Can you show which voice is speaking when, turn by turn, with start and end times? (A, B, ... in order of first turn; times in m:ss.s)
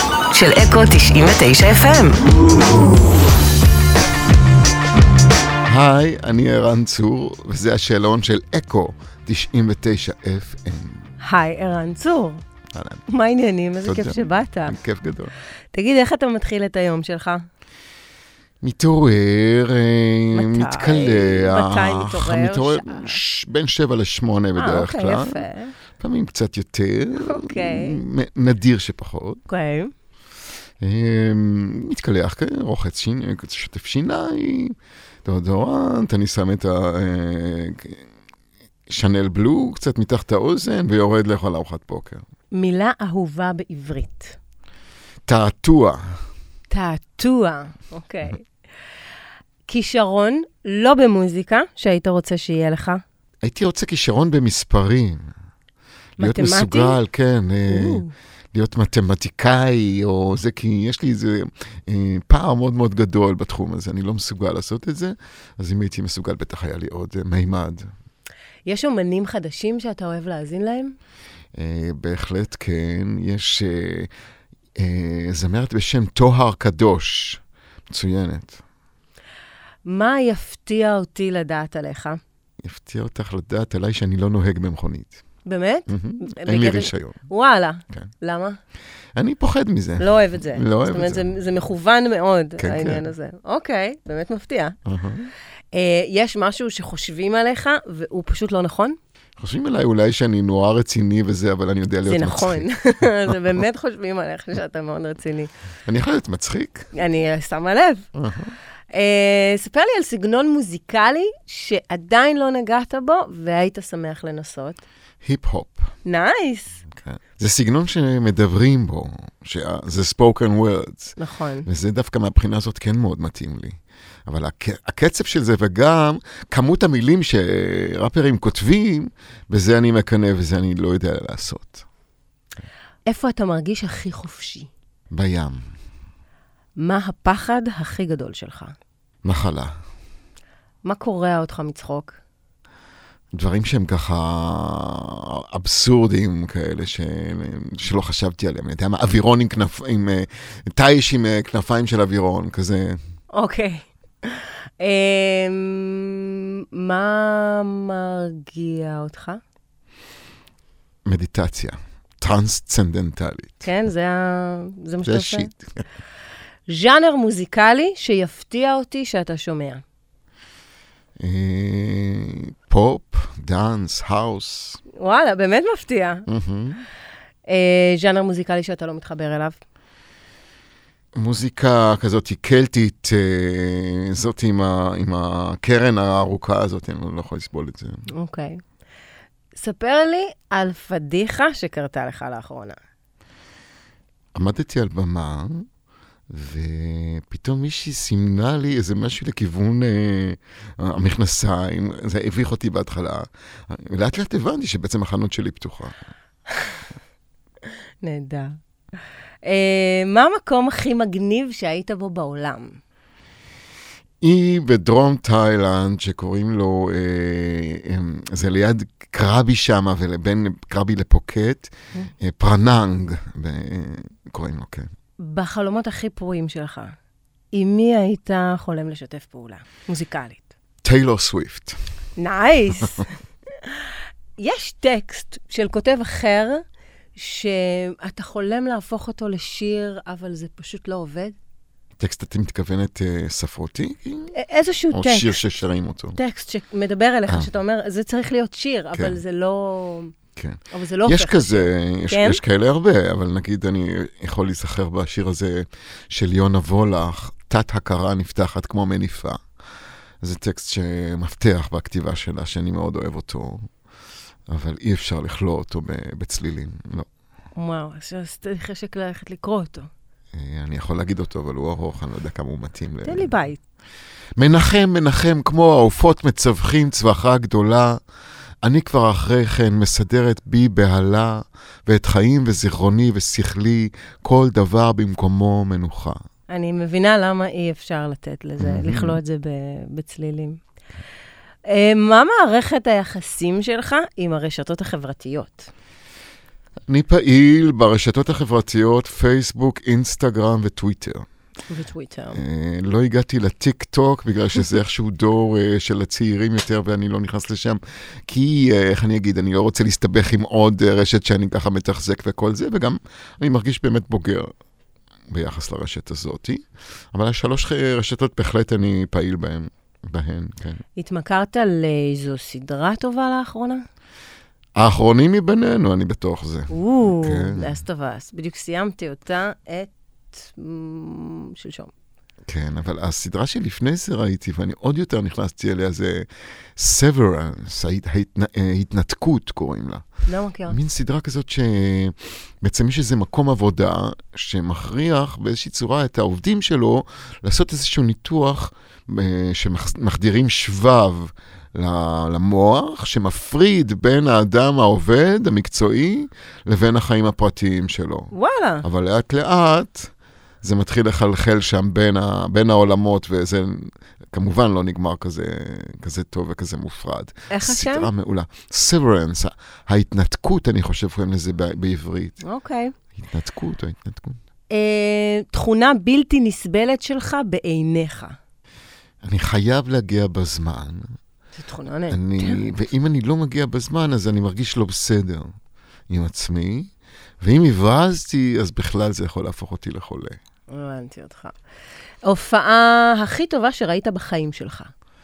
0:00.3-0:02.3 A
0:05.6-0:11.1 B
0:11.2-0:12.4 A
0:12.7-0:13.0 B
0:13.1-0:14.8 A
0:13.8-0:15.3 B
0:15.7-0:17.4 A
0:18.6-0:25.4 B
0:20.3-0:23.2 A
0:24.6-0:25.7 A
0:26.0-0:29.4 B
0:27.2-0:28.0 A
0:29.5-0:29.9 A
0:30.8-0:38.0 B
0:38.9-0:42.2 B
0:42.5-0:44.4 A
0:45.3-0:46.0 B
0:46.7-0:48.5 A
0:49.7-0:53.0 A
0:53.4-0:55.2 B
0:56.2-0:57.0 A
0:56.2-1:07.9 B
0:57.7-0:58.1 A
1:08.6-1:11.0 A
1:11.6-1:14.1 B
1:14.8-1:18.6 B
1:19.8-1:22.2 A
1:22.6-1:25.2 B
1:25.4-1:28.6 A
1:25.9-1:27.2 B
1:29.2-1:31.3 B
1:30.0-1:34.8 A
1:32.6-1:33.1 B
1:34.8-1:35.3 B
1:35.7-1:39.0 A
1:39.4-1:42.7 B
1:42.1-1:45.5 A
1:43.2-1:43.6 B
1:45.8-1:46.9 B
1:46.9-1:48.1 A
1:48.1-1:48.5 B
1:48.9-1:54.8 A
1:55.2-1:55.9 B
1:56.0-1:56.8 A
1:56.9-2:01.2 B
2:01.2-2:01.7 A
2:01.7-2:03.8 B
2:04.3-2:11.8 B
2:13.1-2:14.7 A
2:15.1-2:15.7 B
2:16.8-2:18.8 A
2:19.2-2:19.7 B
2:20.8-2:22.2 A
2:23.4-2:33.0 B
2:33.3-2:39.4 A
2:41.0-2:43.7 B
2:43.6-2:45.5 A
2:45.0-2:45.8 B
2:46.7-2:49.8 A
2:51.2-2:54.8 B
2:55.0-2:56.3 A
2:56.3-2:56.8 B
2:57.5-2:59.6 A
3:01.1-3:08.1 B
3:08.1-3:08.6 A
3:09.5-3:12.8 A
3:14.3-3:15.7 B
3:16.3-3:26.0 B
3:28.0-3:28.6 A
3:29.4-3:32.8 A
3:34.2-3:44.9 B
3:45.2-3:46.9 A
3:47.5-3:50.5 A
3:50.8-3:51.8 B
3:52.2-3:53.1 A
3:53.6-3:56.6 A
3:57.1-4:01.3 A
4:02.0-4:04.3 B
4:04.3-4:05.4 A
4:04.9-4:06.2 B
4:06.1-4:10.1 A
4:08.9-4:09.2 B
4:10.4-4:19.4 B
4:10.7-4:12.4 A
4:20.2-4:23.7 B
4:24.5-4:27.1 B
4:27.5-4:29.9 A
4:30.3-4:33.3 B
4:33.0-4:33.6 A
4:34.4-4:38.0 B
4:38.6-4:46.2 B
4:46.5-4:50.6 A
4:48.6-4:49.2 B
4:51.7-4:55.7 A
4:56.9-5:01.2 B
5:01.7-5:02.4 A
5:02.3-5:14.5 B
5:15.3-5:20.8 B
5:21.0-5:23.8 A
5:24.8-5:27.8 B
5:26.7-5:31.9 A
5:32.5-5:40.0 B
5:40.3-5:40.8 A
5:40.7-5:58.3 B
5:58.3-5:58.8 A
5:58.8-6:00.1 B
6:00.6-6:12.4 B
6:07.5-6:08.1 A
6:12.4-6:12.9 A
6:13.2-6:14.4 B
6:14.7-6:18.4 A
6:19.2-6:21.1 B
6:21.6-6:22.7 A
6:22.1-6:25.5 B
6:26.1-6:26.9 B
6:27.4-6:30.4 B
6:30.7-6:31.5 A
6:32.2-6:34.9 A